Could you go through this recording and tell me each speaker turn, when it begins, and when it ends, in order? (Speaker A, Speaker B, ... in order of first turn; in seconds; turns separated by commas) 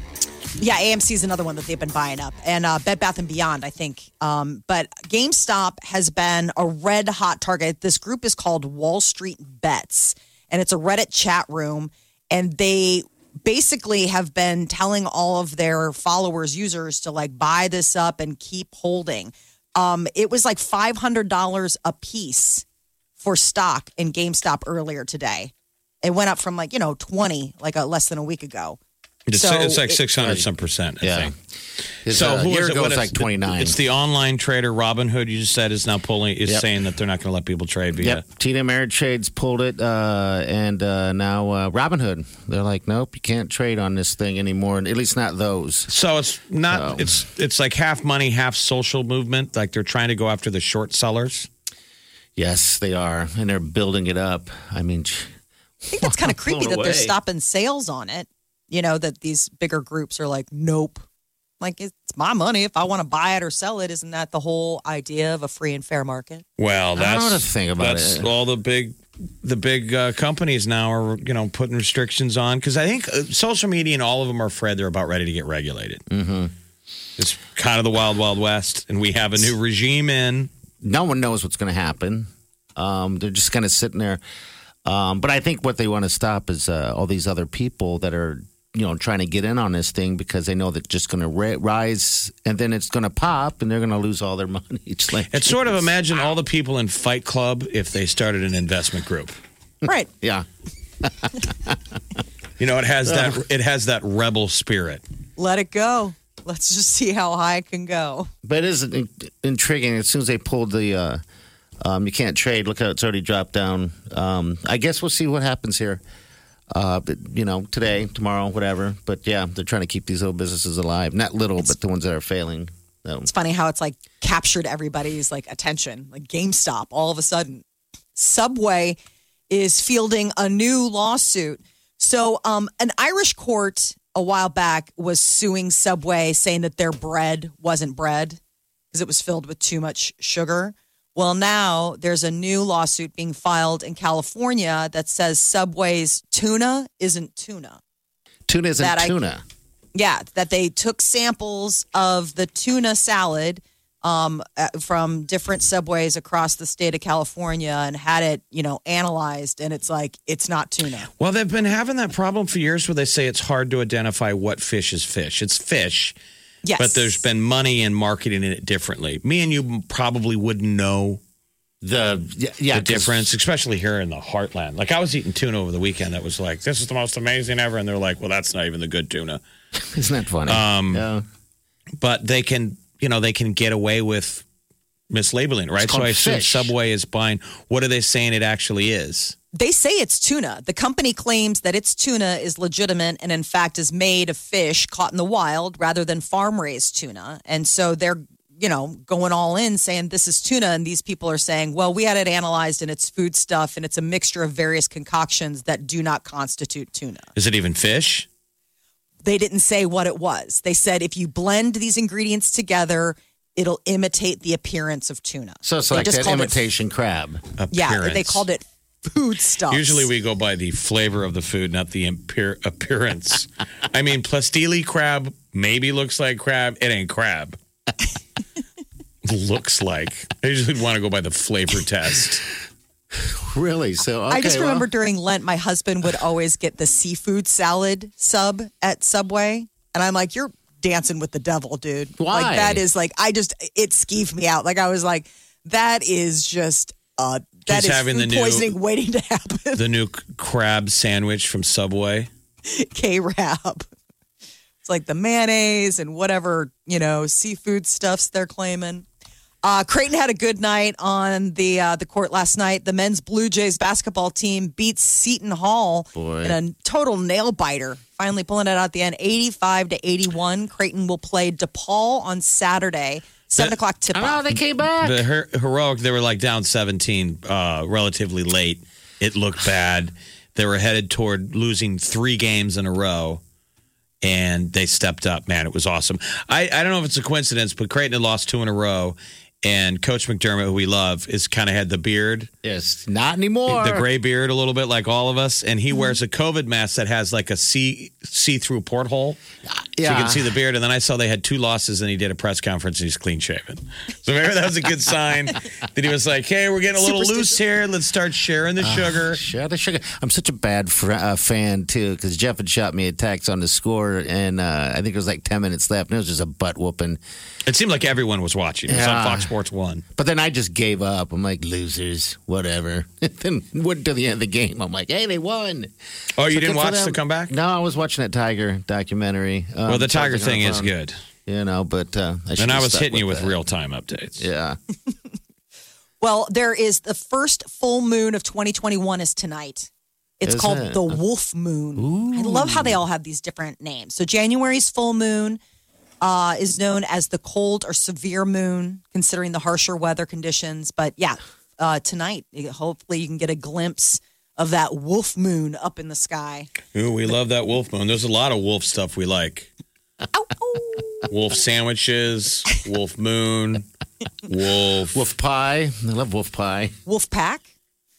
Speaker A: 0.6-22.6, Speaker A: 23.2-25.5, Speaker A: 26.0-28.8, Speaker B: 29.3-31.3, Speaker A: 29.3-30.0, Speaker C: 30.2-30.5, Speaker C: 31.0-31.3, Speaker C: 32.0-33.8, Speaker B: 32.1-38.2, Speaker C: 38.0-45.9, Speaker B: 45.9-51.5, Speaker C: 46.7-47.2, Speaker C: 52.4-55.3, Speaker C: 55.9-57.2, Speaker A: 55.9-61.0, Speaker A: 61.6-66.5, Speaker B: 66.6-76.0, Speaker C: 67.0-68.3, Speaker C: 76.1-76.5, Speaker B: 77.2-80.5, Speaker C: 80.8-84.2, Speaker C: 84.8-95.9, Speaker B: 95.3-99.4, Speaker C: 99.9-100.5, Speaker C: 101.0-101.8, Speaker B: 102.6-105.0, Speaker C: 103.1-103.4, Speaker A: 105.4-108.3, Speaker C: 108.4-111.2, Speaker C: 111.8-116.0, Speaker C: 116.7-123.3, Speaker A: 123.3-127.6, Speaker A: 128.2-129.0, Speaker A: 129.5-138.4, Speaker A: 138.9-147.8, Speaker C: 148.5-149.4, Speaker A: 148.8-149.2, Speaker A: 149.9-161.1, Speaker B: 161.2-166.2, Speaker A: 166.6-167.2, Speaker B: 166.8-171.2, Speaker C: 171.8-173.3, Speaker B: 172.7-179.4, Speaker C: 179.8-181.2, Speaker B: 180.5-181.1, Speaker B: 182.0-184.4, Speaker B: 185.1-189.4, Speaker C: 185.8-186.7, Speaker A: 189.5-207.3, Speaker B: 207.4-208.3, Speaker A: 209.2-216.6, Speaker C: 215.6-217.4, Speaker B: 217.6-218.4, Speaker A: 217.7-220.1, Speaker B: 219.7-227.6, Speaker B: 229.2-232.4, Speaker C: 233.2-234.9, Speaker A: 234.3-249.8, Speaker C: 242.2-242.8, Speaker B: 247.7-248.7, Speaker B: 249.8-252.3, Speaker A: 252.7-253.8, Speaker A: 254.8-259.1, Speaker A: 259.6-274.4, Speaker C: 266.1-266.6, Speaker C: 274.1-275.2, Speaker B: 275.0-283.4, Speaker B: 284.2-292.5, Speaker C: 292.6-294.1, Speaker B: 293.7-299.4, Speaker C: 299.7-300.5, Speaker B: 300.0-309.4, Speaker A: 307.0-307.5, Speaker C: 308.8-317.2, Speaker B: 317.7-320.0, Speaker C: 318.9-319.5, Speaker C: 320.1-325.9, Speaker B: 326.4-327.5, Speaker C: 326.5-330.9, Speaker B: 329.9-331.2, Speaker C: 331.5-333.6, Speaker B: 332.6-334.4, Speaker C: 334.4-334.8, Speaker A: 336.2-339.9, Speaker A: 340.4-345.6, Speaker C: 340.4-341.2, Speaker C: 342.0-343.0, Speaker A: 346.2-356.7, Speaker B: 356.9-359.7, Speaker A: 360.3-361.2, Speaker B: 361.3-363.9, Speaker B: 364.5-365.2, Speaker C: 365.1-367.0, Speaker A: 367.1-367.7